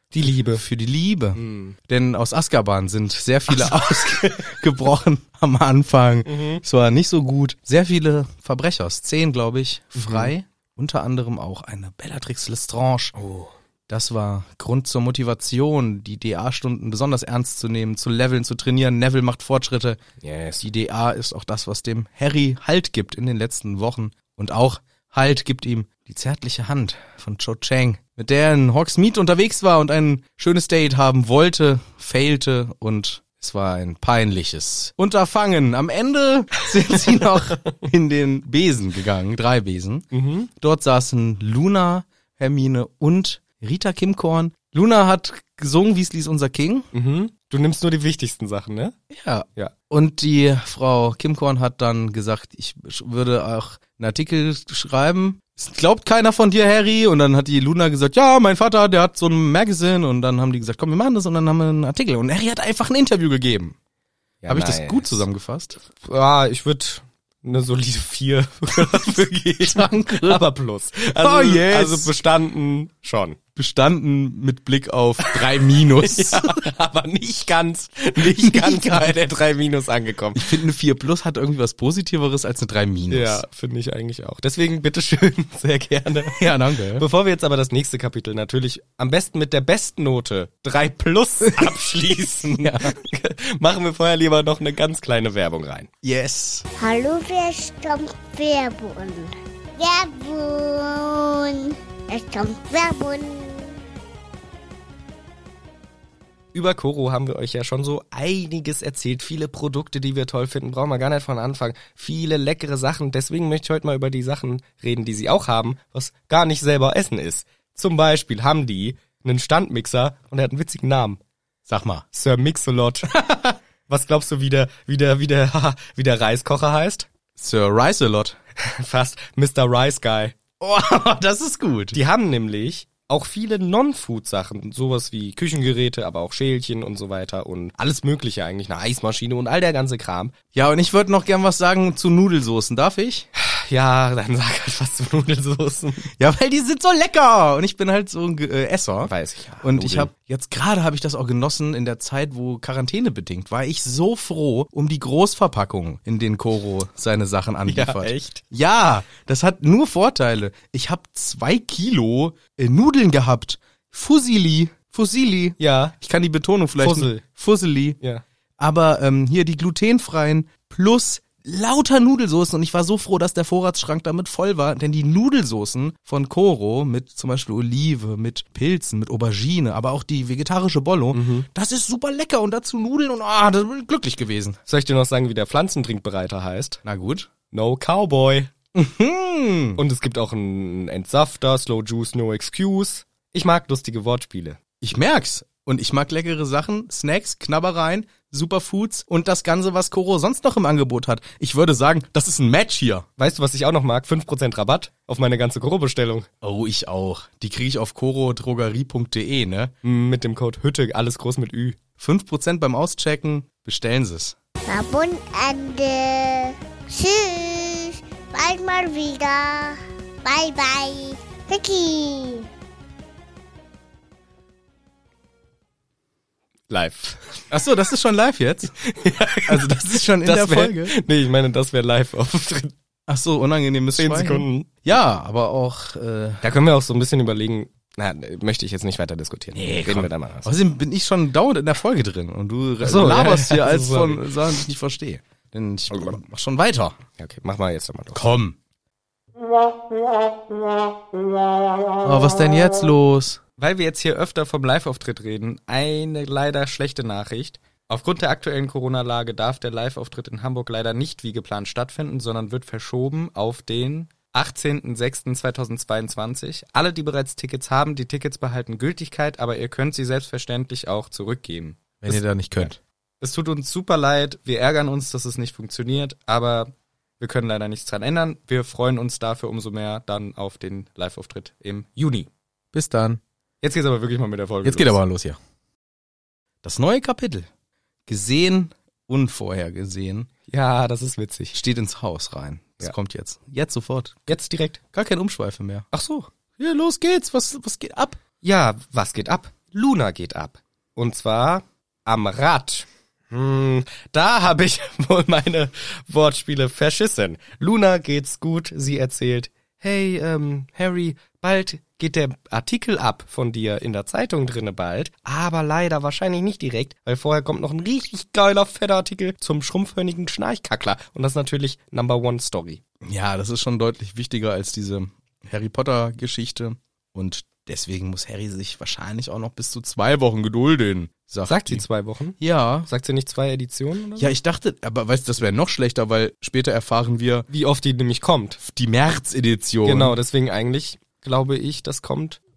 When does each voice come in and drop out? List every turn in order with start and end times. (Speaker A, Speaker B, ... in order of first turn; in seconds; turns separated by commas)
Speaker A: 0.1-0.6, Speaker B: 0.4-13.2, Speaker A: 1.4-1.8, Speaker A: 3.5-4.4, Speaker A: 6.2-6.6, Speaker A: 9.9-10.3, Speaker A: 13.2-13.5, Speaker B: 13.9-20.0, Speaker A: 20.2-20.6, Speaker B: 20.6-46.9, Speaker A: 40.1-40.5, Speaker A: 46.9-48.9, Speaker B: 49.1-63.8, Speaker A: 64.4-65.2, Speaker B: 64.5-65.8, Speaker A: 66.0-73.4, Speaker B: 68.9-70.4, Speaker B: 71.2-72.1, Speaker B: 73.5-76.6, Speaker A: 75.2-80.5, Speaker B: 78.2-79.1, Speaker B: 80.3-83.4, Speaker A: 83.1-95.9, Speaker B: 86.3-87.0, Speaker B: 91.4-91.7, Speaker B: 92.4-92.9, Speaker B: 96.0-96.6, Speaker C: 96.8-103.8, Speaker A: 106.5-121.2, Speaker B: 121.7-122.0, Speaker A: 122.1-123.2, Speaker B: 123.1-123.6, Speaker A: 123.9-127.1, Speaker B: 127.4-128.4, Speaker A: 128.6-130.4, Speaker B: 130.6-132.0, Speaker A: 131.9-140.3, Speaker B: 140.5-143.3, Speaker A: 143.3-146.1, Speaker B: 146.2-168.0, Speaker A: 149.0-150.1, Speaker A: 157.7-158.4, Speaker A: 165.6-165.9, Speaker A: 166.8-167.2, Speaker B: 168.6-184.6, Speaker A: 181.1-181.5, Speaker A: 184.7-186.8, Speaker B: 186.8-187.3, Speaker A: 187.5-188.5, Speaker B: 188.7-189.8, Speaker A: 189.8-194.6, Speaker B: 194.8-203.1, Speaker A: 203.2-206.3, Speaker B: 206.4-209.7, Speaker A: 209.8-211.8, Speaker B: 212.0-214.3, Speaker C: 214.7-222.5, Speaker A: 226.7-227.4, Speaker B: 227.5-228.8, Speaker A: 228.8-232.7, Speaker B: 229.4-230.9, Speaker B: 233.1-236.4, Speaker A: 234.0-234.8, Speaker A: 236.4-240.5, Speaker B: 239.5-247.0, Speaker A: 242.8-244.6, Speaker A: 247.2-248.2, Speaker B: 248.1-248.6, Speaker B: 252.0-253.4, Speaker A: 253.6-272.7, Speaker B: 272.0-272.8, Speaker A: 273.2-282.3, Speaker B: 282.7-283.2, Speaker A: 283.6-285.0, Speaker B: 284.6-285.4, Speaker B: 286.6-287.5, Speaker B: 288.1-290.3, Speaker A: 290.5-291.6, Speaker B: 291.5-294.3, Speaker A: 294.3-294.8, Speaker B: 294.9-295.9, Speaker A: 295.9-296.3, Speaker B: 296.6-298.2, Speaker A: 298.4-322.8, Speaker B: 323.0-331.8, Speaker A: 331.4-334.4, Speaker B: 332.4-332.9, Speaker B: 334.1-337.5, Speaker A: 337.5-338.6, Speaker B: 338.6-340.2, Speaker A: 339.8-342.4